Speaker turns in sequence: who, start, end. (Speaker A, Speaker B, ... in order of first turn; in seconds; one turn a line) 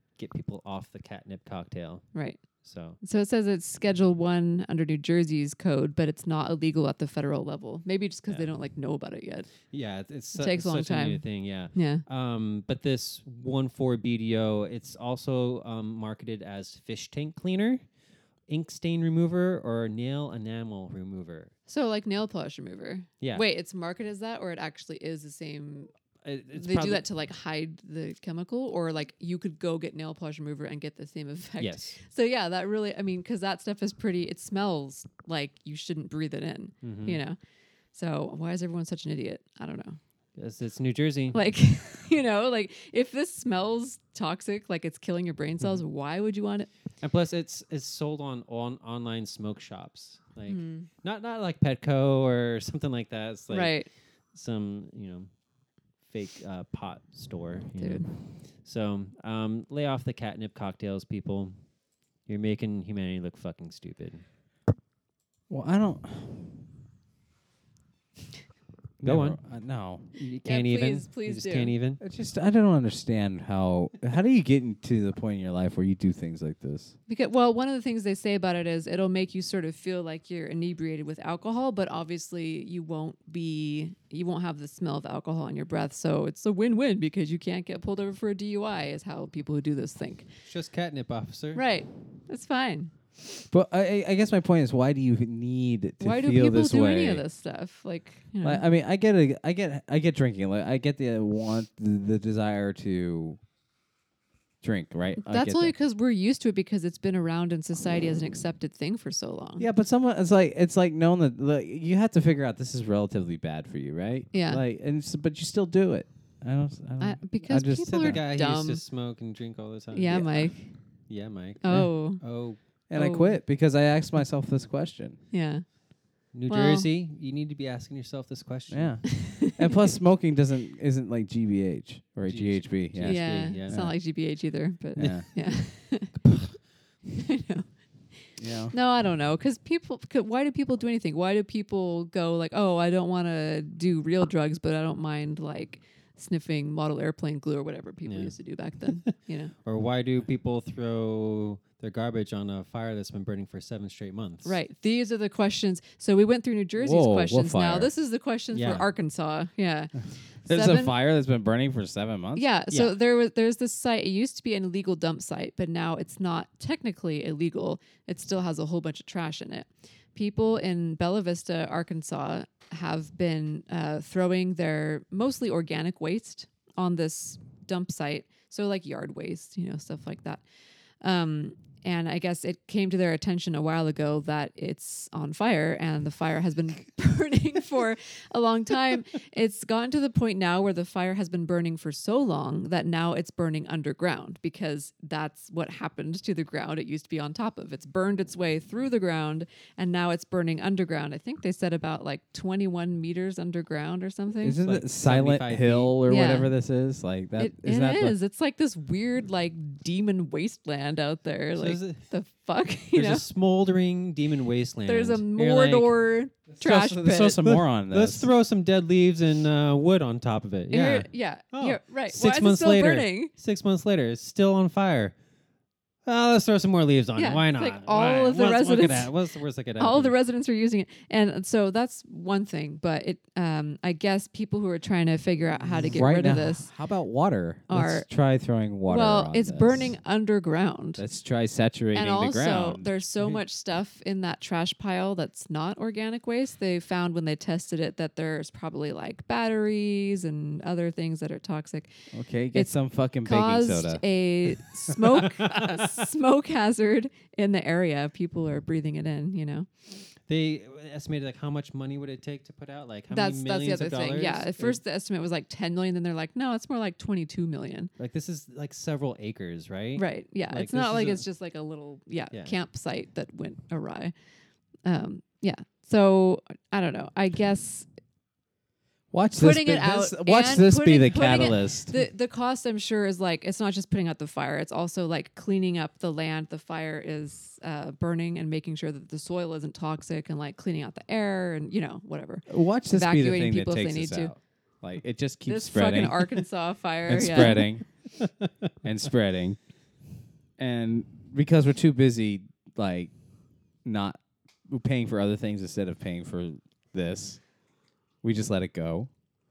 Speaker A: 0.2-2.1
Speaker A: 2.6-3.0
Speaker B: 3.0-9.5
Speaker A: 9.7-17.8
Speaker B: 10.3-12.0
Speaker A: 18.5-21.5
Speaker B: 21.7-25.9
Speaker A: 26.2-27.0
Speaker B: 26.5-37.4
Speaker A: 31.6-32.0
Speaker A: 36.8-37.2
Speaker B: 37.9-40.0
Speaker A: 40.4-41.4
Speaker B: 41.3-46.7
Speaker A: 47.0-53.8
Speaker B: 50.5-50.9
Speaker B: 53.5-53.9
Speaker A: 54.3-55.3
Speaker A: 56.0-61.6
Speaker B: 57.8-58.1
Speaker A: 62.3-64.2
Speaker C: 65.5-66.6
Speaker C: 69.0-70.1
Speaker A: 69.0-69.4
Speaker A: 70.2-72.0
Speaker B: 70.5-71.7
Speaker C: 72.0-76.9
Speaker B: 77.1-90.3
Speaker A: 90.5-91.6
Speaker B: 91.5-92.9
Speaker C: 93.5-97.2
Speaker B: 96.0-98.6
Speaker C: 98.4-103.4
Speaker C: 104.6-105.7
Speaker B: 105.2-109.7
Speaker C: 109.6-118.2
Speaker B: 114.3-114.6
Speaker B: 117.0-118.8
Speaker A: 117.8-122.6
Speaker B: 119.9-120.6
Speaker B: 121.6-122.2
Speaker C: 122.9-125.2
Speaker B: 122.9-123.4
Speaker B: 125.3-125.7
Speaker A: 126.3-129.0
Speaker B: 126.5-126.9
Speaker C: 128.7-133.9
Speaker B: 129.1-129.9
Speaker A: 132.3-133.8
Speaker B: 133.0-136.2
Speaker C: 134.9-135.3
Speaker A: 136.2-136.6
Speaker B: 137.2-137.7
Speaker C: 138.4-138.7
Speaker B: 138.7-149.5
Speaker A: 148.1-148.3
Speaker A: 149.6-154.6
Speaker B: 154.4-161.0
Speaker C: 156.8-157.9
Speaker A: 158.5-158.9
Speaker C: 160.5-162.4
Speaker B: 162.4-180.4
Speaker B: 181.0-204.6
Speaker C: 204.4-208.2
Speaker A: 204.6-205.9
Speaker B: 206.1-206.5
Speaker B: 207.4-213.2
Speaker A: 211.6-212.0
Speaker A: 212.9-215.9
Speaker B: 214.9-217.4
Speaker C: 216.5-218.3
Speaker A: 217.4-225.2
Speaker B: 220.7-223.3
Speaker A: 226.1-230.2
Speaker B: 227.2-229.1
Speaker B: 229.8-236.7
Speaker C: 235.8-239.9
Speaker B: 237.7-238.1
Speaker B: 238.9-241.0
Speaker C: 241.0-242.9
Speaker B: 241.9-251.9
Speaker C: 252.1-254.0
Speaker B: 252.5-259.7
Speaker A: 255.4-255.8
Speaker A: 260.3-264.8
Speaker B: 263.1-267.9
Speaker A: 268.0-271.2
Speaker B: 270.0-274.1
Speaker B: 274.9-277.9
Speaker C: 279.1-281.9
Speaker B: 279.4-294.3
Speaker C: 292.5-296.4
Speaker B: 295.5-297.7
Speaker C: 297.1-297.9
Speaker A: 298.2-298.5
Speaker C: 298.8-299.6
Speaker C: 300.6-303.1
Speaker C: 303.9-307.4
Speaker C: 308.2-309.1